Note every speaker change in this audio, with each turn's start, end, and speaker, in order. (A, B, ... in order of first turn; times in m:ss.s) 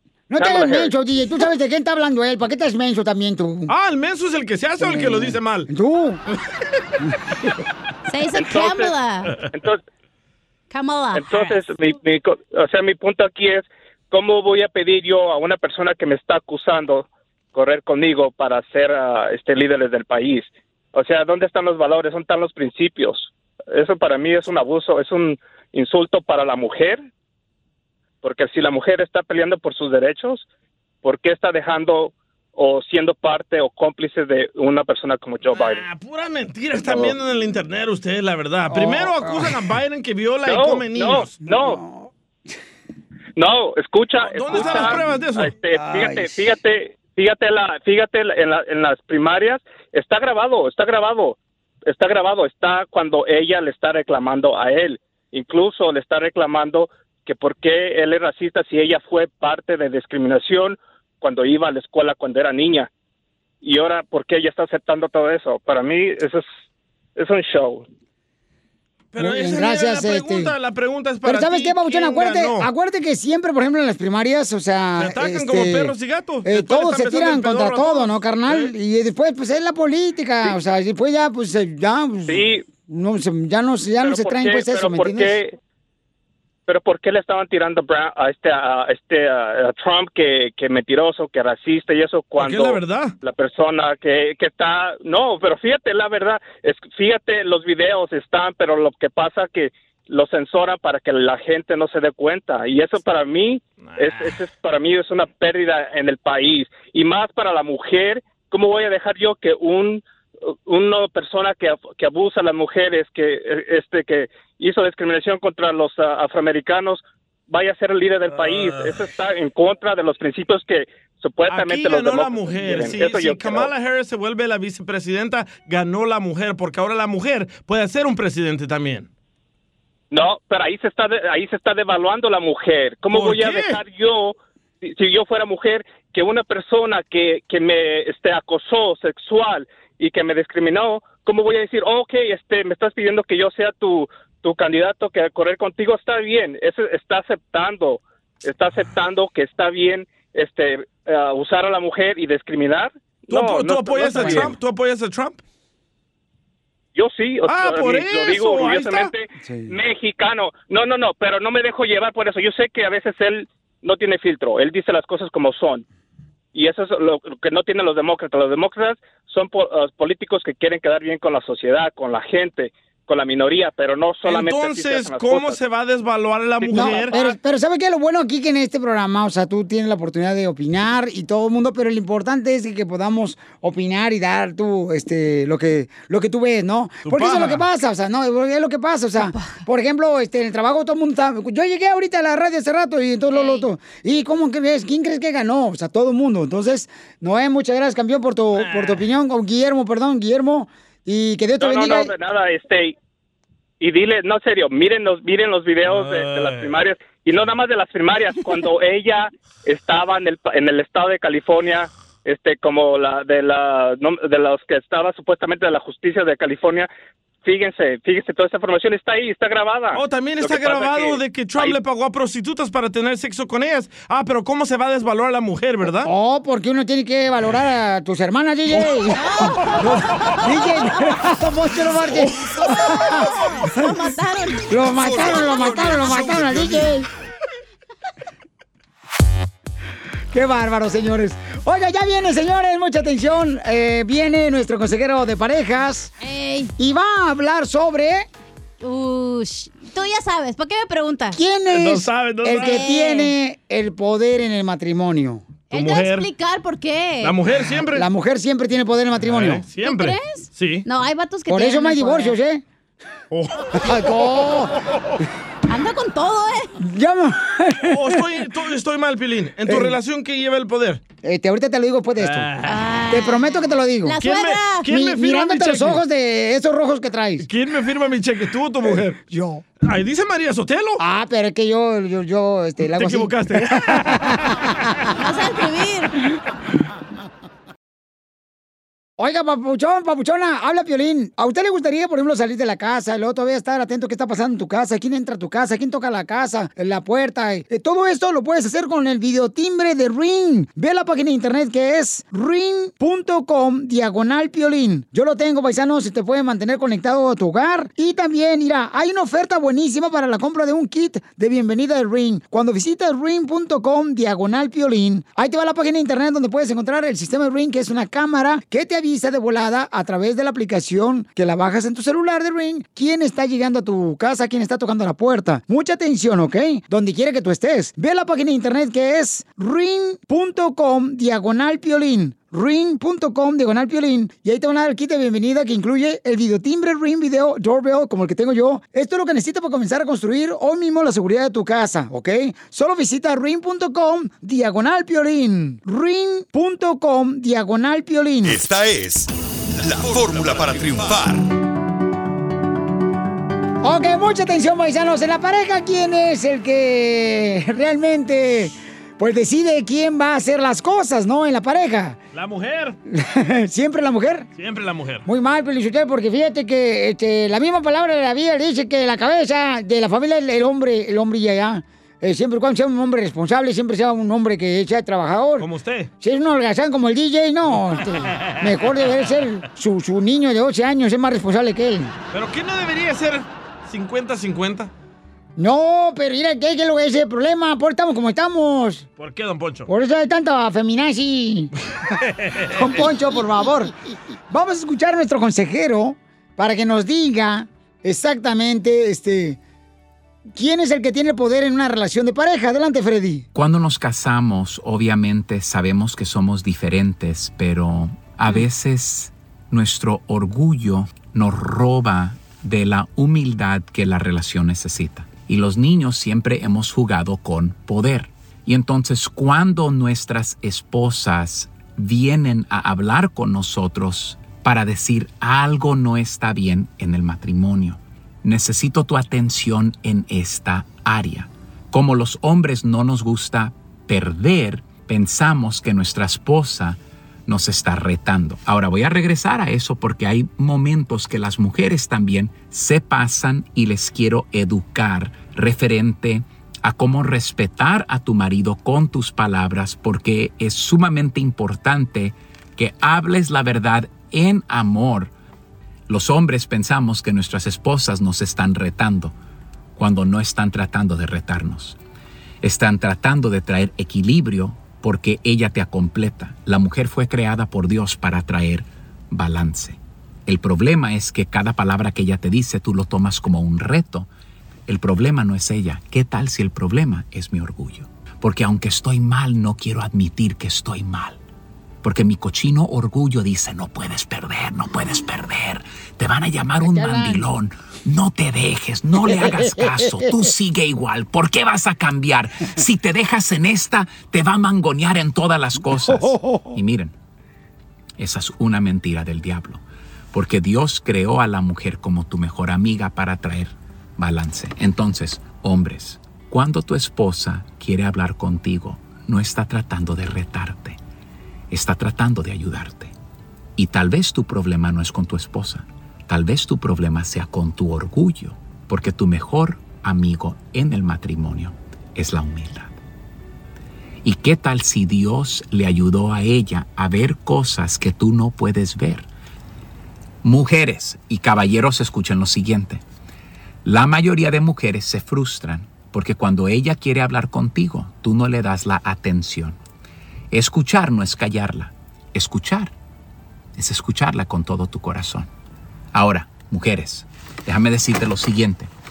0:00.3-0:03.7 A
0:00.4-0:00.9 B
0:03.7-0:05.7 C
0:04.8-0:06.2 A
0:08.1-0:09.4 D
0:08.3-0:08.9 B
0:09.5-0:09.8 B
0:10.7-0:11.6 D
0:11.1-0:27.0 B
0:28.2-0:30.5 B
0:31.0-0:35.8 B
0:35.5-0:41.3 C
0:38.7-0:39.5 A
0:40.5-0:41.8 B
0:41.4-0:42.1 A
0:43.4-1:02.9 B
0:44.2-0:45.6 C
0:44.6-0:45.1 A
0:45.7-0:46.5 A
1:03.6-1:06.6 B
1:07.2-1:07.8 B
1:09.1-1:12.7 C
1:09.2-1:10.5 A
1:11.2-1:25.4 A
1:15.0-1:18.7 C
1:22.3-1:22.6 B
1:24.0-1:25.6 B
1:26.7-2:03.7 B
1:32.4-1:33.1 C
1:43.8-1:44.3 C
1:58.3-1:59.0 C
2:01.5-2:09.1 C
2:10.1-2:34.5 B
2:13.1-2:13.8 C
2:33.3-2:35.4 C
2:34.1-2:34.5 A
2:36.9-2:45.8 B
2:37.4-2:39.1 C
2:39.4-2:39.7 A
2:46.5-2:55.6 B
2:54.2-2:57.2 C
2:56.6-3:22.1 A
3:07.0-3:07.6 C
3:09.2-3:09.6 D
3:13.3-3:13.7 D
3:18.5-3:19.0 C
3:21.6-3:23.0 B
3:23.8-3:36.9 B
3:25.8-3:26.8 C
3:37.4-3:41.7 B
3:39.9-3:46.1 C
3:46.0-3:53.4 A
3:49.1-3:50.6 D
3:52.8-3:56.2 D
3:54.7-3:57.1 A
3:56.4-3:56.8 C
4:00.3-4:06.1 A
4:06.2-4:06.7 D
4:06.8-4:08.3 A
4:08.8-4:11.4 D
4:11.3-4:15.5 A
4:11.7-4:13.0 C
4:12.6-4:13.3 D
4:15.7-4:17.4 D
4:15.7-4:16.3 C
4:17.2-4:18.1 C
4:17.9-4:19.6 A
4:19.2-4:20.8 C
4:19.8-4:22.4 D
4:21.5-4:22.6 A
4:23.3-4:23.9 C
4:23.8-4:24.8 A
4:24.9-4:25.2 C
4:25.7-4:26.7 D
4:26.8-4:28.2 A
4:27.9-4:31.0 C
4:29.6-4:30.0 A
4:31.2-4:32.6 A
4:32.2-4:32.8 C
4:32.6-4:33.5 D
4:33.1-4:34.2 A
4:34.0-4:34.8 D
4:34.2-4:36.0 C
4:34.9-4:37.5 A
4:37.4-4:39.2 C
4:38.8-4:39.6 A
4:39.8-4:41.0 C
4:41.0-4:44.8 A
4:42.8-4:44.8 C
4:45.2-4:46.1 D
4:49.2-5:48.6 A
5:48.4-5:51.4 E
5:53.8-6:02.2 A
6:02.3-6:03.0 C
6:03.1-6:04.5 A
6:04.6-6:05.2 C
6:05.2-6:15.7 A
6:15.6-6:16.1 C
6:16.2-6:22.1 A
6:22.3-6:24.9 C
6:25.6-6:29.0 A
6:29.2-6:29.9 C
6:29.9-6:31.7 A
6:32.3-6:33.1 C
6:32.7-6:33.9 A
6:34.5-6:39.6 A
6:40.5-6:43.5 A
6:43.5-7:35.3 F
7:36.1-7:39.3 F
7:40.0-7:42.0 F
7:42.6-7:54.3 F
7:54.9-8:01.4 F
8:02.0-8:17.1 F
8:06.8-8:07.4 A
8:09.2-8:10.3 A
8:15.8-8:16.8 A
8:18.2-8:31.0 F
8:31.7-8:33.1 F
8:33.8-8:43.0 F
8:44.2-8:49.3 F
8:50.4-8:53.0 F
8:53.8-8:59.8 F
9:00.5-9:02.9 F
9:03.8-9:05.5 F
9:06.1-9:08.9 F